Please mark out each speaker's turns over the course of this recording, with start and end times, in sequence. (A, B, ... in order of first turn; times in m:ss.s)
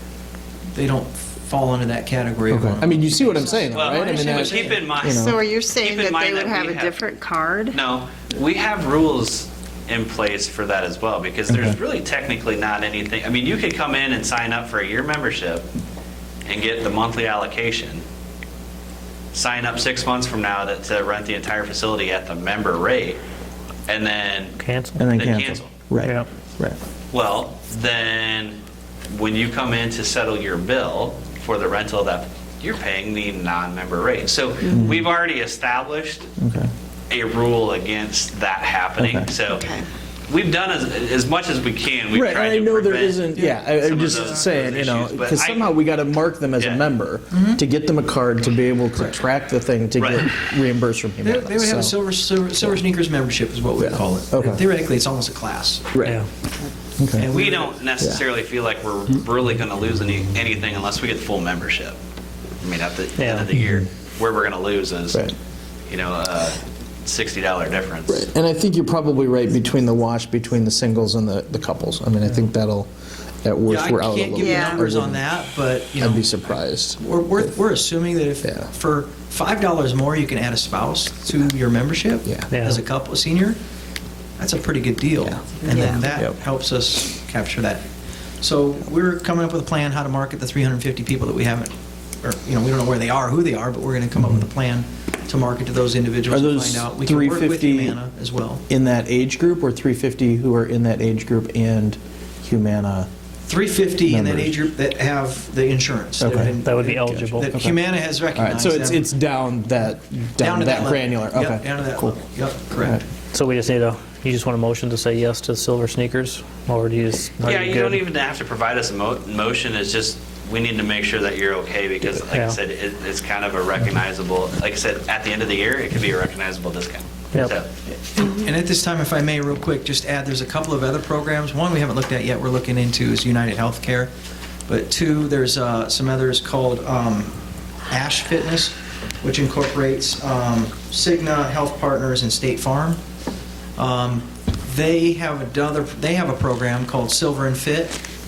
0:00.7-0:04.8 A
0:02.5-0:05.4 B
0:03.7-0:07.0 C
0:05.0-0:07.8 D
0:07.7-0:15.6 C
0:11.5-0:11.8 B
0:16.5-0:18.0 C
0:19.3-0:23.2 C
0:23.9-0:24.6 C
0:24.6-0:25.0 E
0:25.0-0:26.8 B
0:25.1-0:25.7 C
0:26.0-0:26.3 E
0:27.1-0:28.6 C
0:29.1-0:36.3 C
0:34.7-0:35.1 B
0:36.4-0:36.7 B
0:37.1-0:39.7 C
0:39.0-0:39.3 B
0:39.5-0:39.8 D
0:40.3-0:45.7 C
0:42.1-0:52.0 B
0:43.3-0:44.4 A
0:46.6-0:46.9 C
0:47.3-0:47.6 A
0:48.9-0:49.2 A
0:50.0-0:50.3 C
0:51.2-0:55.9 A
0:53.8-0:54.6 B
0:55.9-0:56.2 B
0:57.0-0:57.3 B
0:57.2-0:57.8 A
0:57.3-1:02.0 C
1:02.6-1:05.4 C
1:03.2-1:03.5 E
1:05.9-1:08.3 C
1:08.1-1:12.9 B
1:13.4-1:15.3 B
1:13.7-1:23.6 A
1:14.4-1:14.8 D
1:16.0-1:17.5 B
1:18.4-1:18.7 B
1:22.5-1:22.8 E
1:24.4-1:27.8 A
1:25.7-1:26.0 D
1:28.4-1:38.6 A
1:36.3-1:38.0 B
1:38.7-1:43.1 B
1:43.5-1:49.0 A
1:44.1-1:44.6 B
1:46.2-1:52.2 B
1:46.6-1:47.5 E
1:50.4-1:53.0 A
1:53.3-1:58.0 E
1:57.4-2:07.7 C
2:02.1-2:02.6 E
2:07.9-2:14.1 A
2:14.7-2:17.3 A
2:17.9-2:23.0 A
2:23.8-2:28.0 A